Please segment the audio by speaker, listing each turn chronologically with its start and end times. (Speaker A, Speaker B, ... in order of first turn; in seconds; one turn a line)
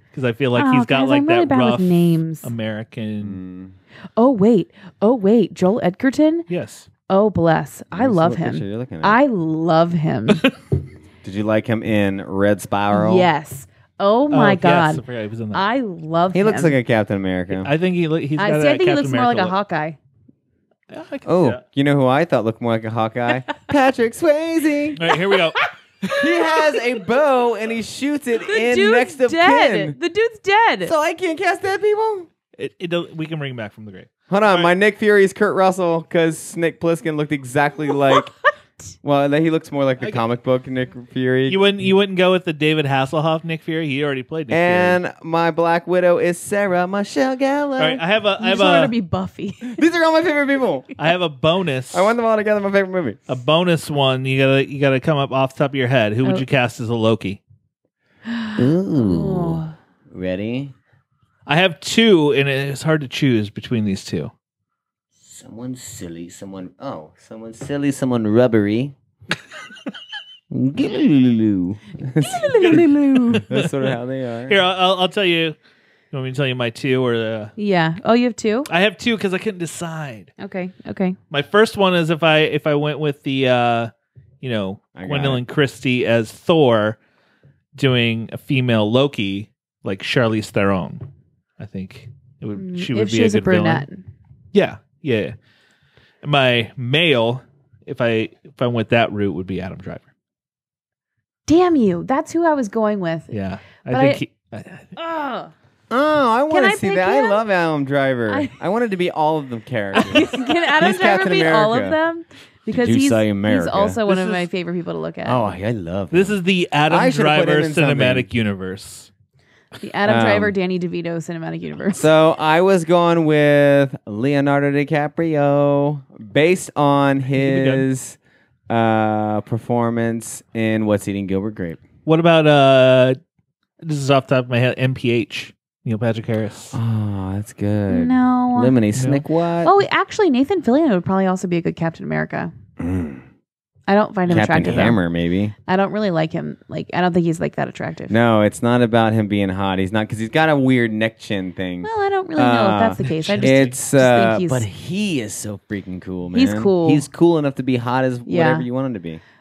Speaker A: 0.1-3.4
Speaker B: 0.6-2.5
Speaker C: 3.2-3.8
Speaker B: 4.2-6.5
Speaker A: 6.5-6.9
Speaker B: 7.1-10.4
Speaker C: 7.9-9.2
Speaker C: 11.2-13.3
Speaker B: 12.9-16.8
Speaker A: 14.3-15.7
Speaker C: 16.3-17.7
Speaker A: 17.5-19.5
Speaker B: 18.4-20.0
Speaker A: 20.9-21.6
Speaker C: 21.2-25.0
Speaker A: 25.0-26.2
Speaker C: 26.2-30.0
Speaker B: 28.4-30.9
Speaker C: 30.8-32.3
Speaker A: 32.6-34.7
Speaker C: 34.3-38.3
Speaker C: 39.0-41.7
Speaker A: 41.5-45.0
Speaker C: 44.5-48.0
Speaker A: 47.8-49.0
Speaker B: 48.4-49.8
Speaker C: 49.6-50.9
Speaker A: 51.0-52.1
Speaker C: 51.9-53.2
Speaker A: 53.3-57.4
Speaker B: 58.3-59.7
Speaker C: 58.6-60.7
Speaker A: 61.5-64.3
Speaker C: 65.2-69.0
Speaker C: 70.5-74.6
Speaker B: 72.2-73.5
Speaker A: 72.5-74.0
Speaker A: 74.5-75.6
Speaker A: 76.1-77.5
Speaker B: 77.6-78.7
Speaker A: 78.7-80.3
Speaker B: 80.4-81.2
Speaker A: 81.3-87.0
Speaker C: 85.0-85.4
Speaker A: 87.8-91.0
Speaker A: 91.6-93.9
Speaker B: 92.6-94.0
Speaker A: 94.5-95.3
Speaker A: 96.2-100.0
Speaker B: 101.5-103.3
Speaker A: 103.3-105.0
Speaker B: 103.9-104.2
Speaker B: 105.0-105.5
Speaker C: 105.9-112.0
Speaker B: 106.5-107.4
Speaker B: 108.3-108.5
Speaker B: 109.9-115.5
Speaker C: 112.7-114.0
Speaker A: 114.1-114.5
Speaker C: 115.2-118.3
Speaker A: 116.1-119.1
Speaker B: 119.8-122.1
Speaker C: 120.0-120.5
Speaker C: 121.9-128.2
Speaker A: 127.3-127.9
Speaker C: 128.7-131.8
Speaker A: 132.1-133.2
Speaker A: 133.8-136.8
Speaker C: 136.7-139.7
Speaker B: 137.9-138.8
Speaker A: 138.9-139.2
Speaker B: 139.6-142.5
Speaker C: 142.8-143.2
Speaker B: 143.9-145.0
Speaker C: 144.3-145.5
Speaker B: 145.7-148.2
Speaker C: 148.1-159.2
Speaker B: 151.8-154.7
Speaker A: 153.0-153.8
Speaker B: 156.3-157.1
Speaker B: 158.3-158.7